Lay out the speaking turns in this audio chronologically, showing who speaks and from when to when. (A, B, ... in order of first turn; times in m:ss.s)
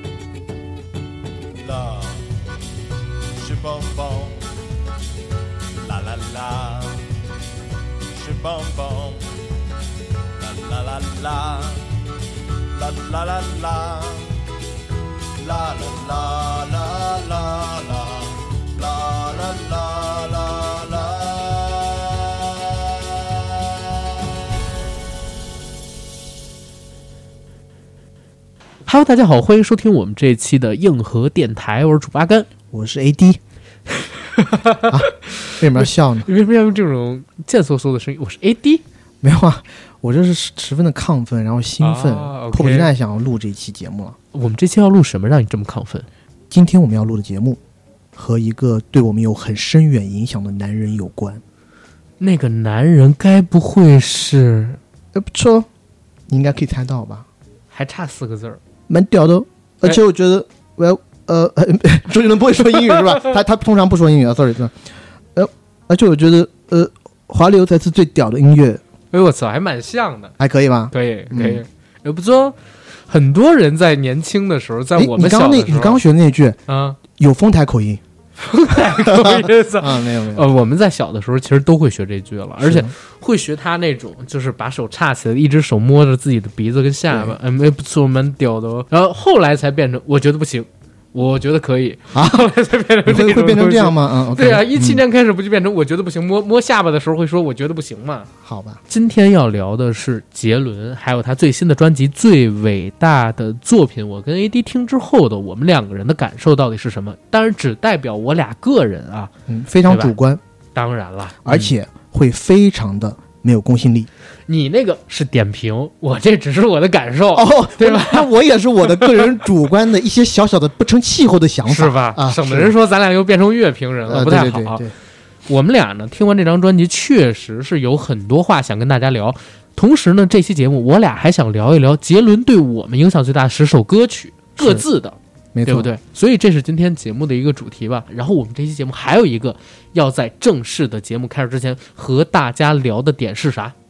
0:01.6-0:02.2 A
0:03.3-0:04.4 A
0:05.7-0:07.0 A
0:08.1-0:09.4 A
0:10.4-0:11.9 A
0:12.6-0:14.4 A
0:15.3-0:23.9 A
0:28.8-0:32.5 B
0:32.7-0:33.4 C
0:34.0-0:38.8 B
0:34.8-0:36.3 C
0:39.2-0:44.2 C
0:41.8-0:42.9 B
0:44.3-0:46.0 B
0:46.5-0:47.6 C
0:48.2-0:51.4 C
0:52.2-0:54.8 B
0:55.1-0:55.7 C
0:56.3-0:57.3 C
0:57.7-0:58.6 B
0:58.9-1:04.7 C
1:05.3-1:08.8 C
1:09.1-1:10.3 B
1:10.4-1:11.6 C
1:10.9-1:12.6 B
1:13.1-1:16.0 B
1:15.0-1:16.6 C
1:16.7-1:17.0 B
1:17.1-1:18.0 C
1:18.4-1:38.3 B
1:18.8-1:20.4 C
1:22.6-1:22.9 C
1:27.1-1:27.4 C
1:32.1-1:32.5 C
1:33.0-1:35.0 C
1:38.4-1:38.8 C
1:38.9-1:49.3 B
1:49.5-1:50.4 C
1:49.9-1:50.1 B
1:50.7-1:51.7 B
1:51.4-1:54.1 C
1:54.5-1:58.3 B
1:57.3-2:02.7 C
2:01.7-2:04.8 B
2:04.1-2:04.9 C
2:05.5-2:23.7 B
2:14.6-2:14.8 C
2:15.5-2:15.9 C